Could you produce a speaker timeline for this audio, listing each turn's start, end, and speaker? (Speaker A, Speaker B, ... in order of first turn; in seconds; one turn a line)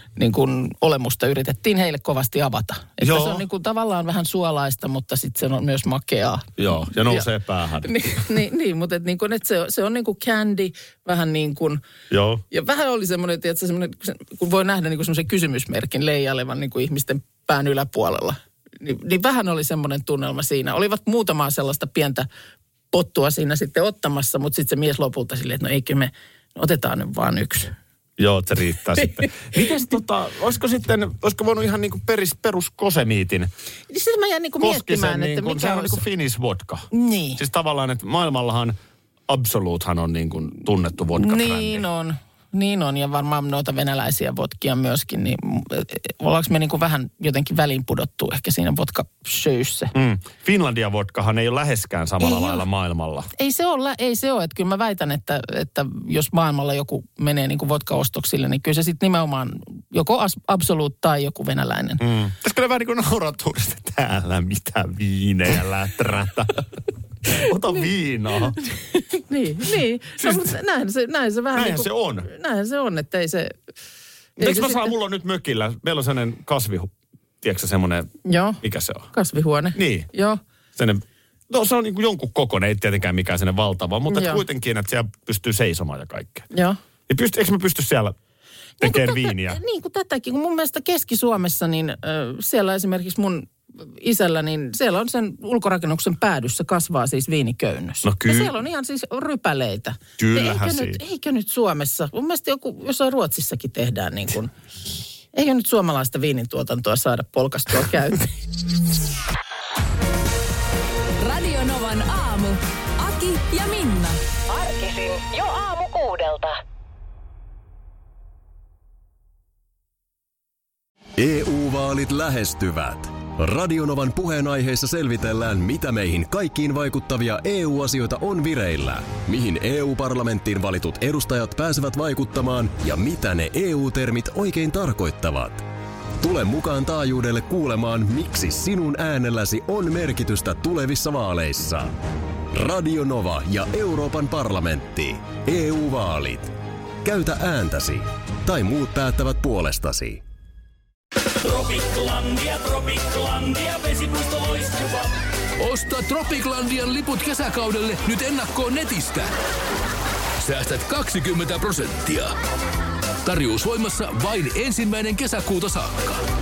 Speaker A: 0.2-7.3
Speaker B: 3.0-3.5
Speaker B: 6.6-8.2
Speaker A: 7.8-11.8
Speaker B: 12.1-12.4
Speaker A: 12.5-22.3
Speaker A: 22.9-27.7
Speaker B: 28.2-33.5
Speaker A: 29.0-29.3
Speaker A: 33.9-36.0
Speaker B: 34.6-38.8
Speaker A: 36.9-37.4
Speaker B: 39.3-41.8
Speaker A: 41.1-49.9
Speaker B: 49.9-53.3
Speaker A: 52.2-52.6
Speaker A: 53.4-62.0
Speaker B: 62.0-66.7
Speaker B: 67.3-68.6
Speaker A: 68.5-73.5
Speaker B: 70.2-70.5
Speaker B: 71.5-72.3
Speaker B: 74.4-76.9
Speaker A: 74.4-74.9
Speaker B: 77.4-79.1
Speaker A: 78.2-78.6
Speaker A: 79.1-80.4
Speaker B: 79.8-80.1
Speaker B: 80.8-86.5
Speaker A: 84.1-84.4
Speaker A: 86.5-86.8
Speaker B: 87.1-88.2
Speaker A: 88.8-104.5
Speaker B: 88.8-89.6
Speaker B: 98.0-98.5
Speaker B: 100.2-101.0
Speaker A: 105.3-108.3
Speaker C: 111.2-114.2
Speaker D: 114.5-116.5
Speaker E: 121.2-135.7
Speaker E: 136.2-142.0
Speaker E: 142.5-150.2
Speaker F: 151.3-159.3
Speaker F: 160.4-162.3
Speaker F: 163.2-166.2